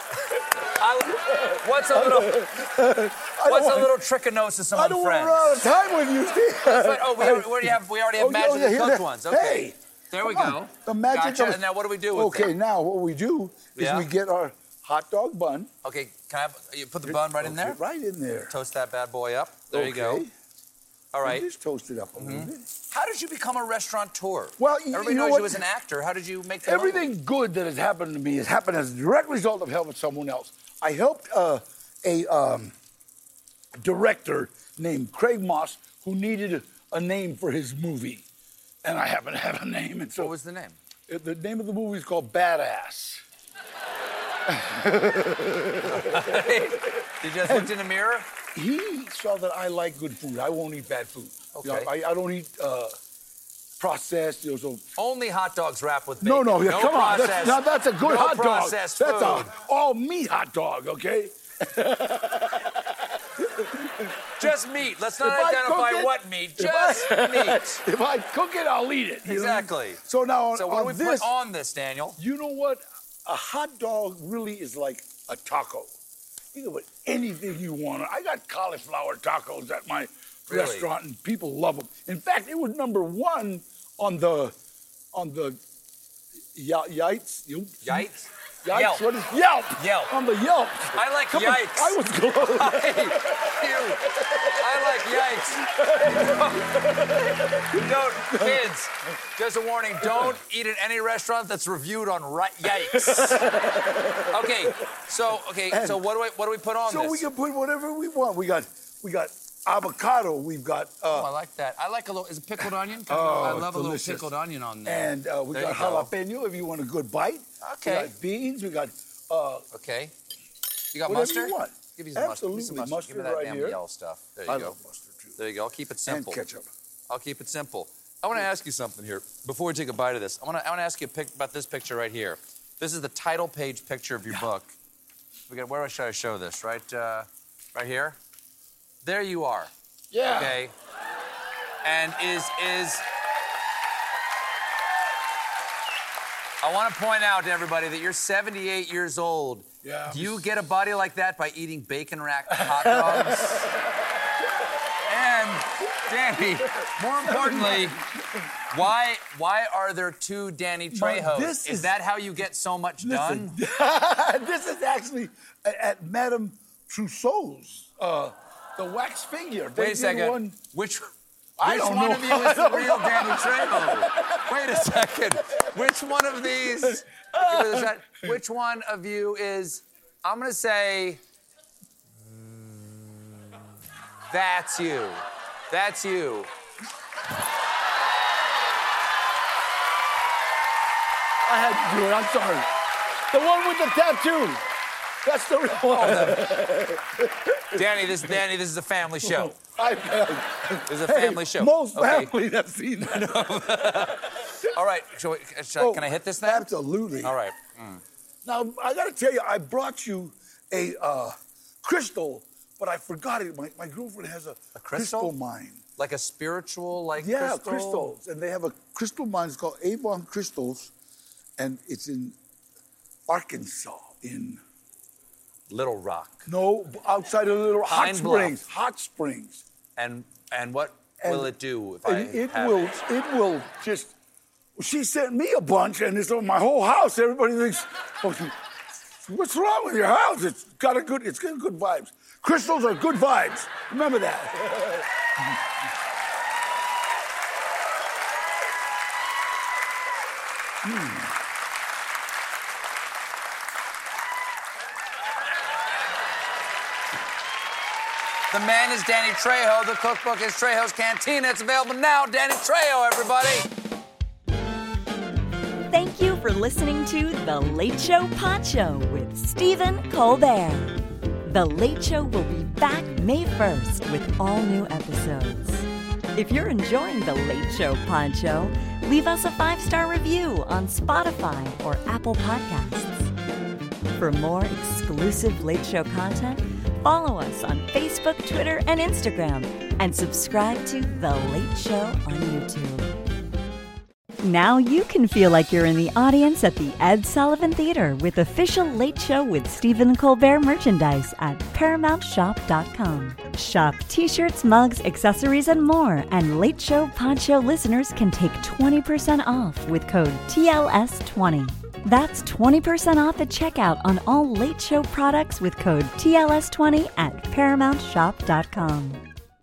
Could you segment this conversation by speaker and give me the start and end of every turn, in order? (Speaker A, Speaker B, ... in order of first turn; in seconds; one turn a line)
Speaker A: 0.8-2.4
Speaker B: 1.2-4.0
Speaker A: 3.4-5.6
Speaker B: 4.7-15.7
Speaker A: 6.6-12.5
Speaker A: 13.8-14.1
Speaker A: 15.8-17.8
Speaker B: 17.1-18.5
Speaker A: 18.5-20.2
Speaker B: 19.7-20.3
Speaker A: 21.1-21.5
Speaker B: 21.2-22.7
Speaker A: 22.1-27.1
Speaker B: 24.6-25.6
Speaker B: 26.6-32.7
Speaker B: 33.8-38.2
Speaker B: 38.8-40.3
Speaker A: 40.1-40.8
Speaker B: 41.1-43.2
Speaker B: 44.5-46.2
Speaker A: 45.8-48.3
Speaker B: 47.4-47.7
Speaker B: 48.5-52.9
Speaker A: 51.5-51.9
Speaker B: 53.8-54.8
Speaker A: 55.0-59.5
Speaker B: 56.2-62.9
Speaker B: 63.4-64.5
Speaker A: 64.4-67.8
Speaker B: 65.2-71.3
Speaker A: 69.2-70.0
Speaker A: 70.5-72.2
Speaker B: 72.2-75.9
Speaker B: 76.5-84.5
Speaker A: 80.5-80.9
Speaker B: 85.1-85.6
Speaker B: 86.5-88.1
Speaker A: 87.8-89.0
Speaker B: 88.6-94.9
Speaker A: 89.8-90.2
Speaker A: 90.9-96.8
Speaker B: 95.6-97.8
Speaker A: 97.7-103.5
Speaker B: 98.3-98.7
Speaker B: 102.8-104.7
Speaker A: 104.3-107.3
Speaker B: 105.7-106.0
Speaker B: 106.9-111.3
Speaker A: 111.1-116.1
Speaker B: 112.6-114.3
Speaker B: 114.8-119.7
Speaker A: 117.6-118.1
Speaker A: 119.7-120.1
Speaker A: 120.9-124.8
Speaker B: 121.0-123.8
Speaker B: 124.5-125.4
Speaker A: 125.4-126.4
Speaker B: 126.0-126.7
Speaker A: 127.1-134.7
Speaker A: 135.5-138.2
Speaker A: 139.0-139.7
Speaker B: 140.1-140.6
Speaker A: 140.2-140.7
Speaker A: 141.8-143.0
Speaker A: 146.6-153.7
Speaker B: 149.8-150.5
Speaker B: 152.5-153.7
Speaker A: 155.0-158.0
Speaker B: 156.6-158.4
Speaker A: 158.7-163.6
Speaker B: 160.9-161.9
Speaker B: 163.0-170.6
Speaker A: 169.7-171.1
Speaker B: 171.6-174.4
Speaker A: 171.6-181.2
Speaker B: 176.8-177.9
Speaker A: 182.2-183.3
Speaker A: 184.3-186.5
Speaker B: 191.4-192.7
Speaker B: 193.3-194.6
Speaker B: 195.2-198.3
Speaker A: 195.8-196.4
Speaker A: 197.7-199.5
Speaker B: 199.2-204.4
Speaker A: 200.8-202.3
Speaker A: 203.0-206.7
Speaker B: 205.8-207.4
Speaker A: 207.2-208.0
Speaker B: 208.4-215.8
Speaker A: 214.7-215.3
Speaker A: 216.0-218.1
Speaker B: 217.2-220.9
Speaker B: 221.6-222.3
Speaker B: 223.3-224.6
Speaker A: 225.7-226.4
Speaker B: 226.4-229.6
Speaker A: 227.8-228.6
Speaker A: 229.9-233.0
Speaker B: 231.2-234.1
Speaker B: 234.8-238.5
Speaker B: 239.2-245.0
Speaker B: 250.8-251.3
Speaker A: 258.5-263.6
Speaker C: 265.9-283.3
Speaker C: 284.2-293.1
Speaker C: 294.4-319.2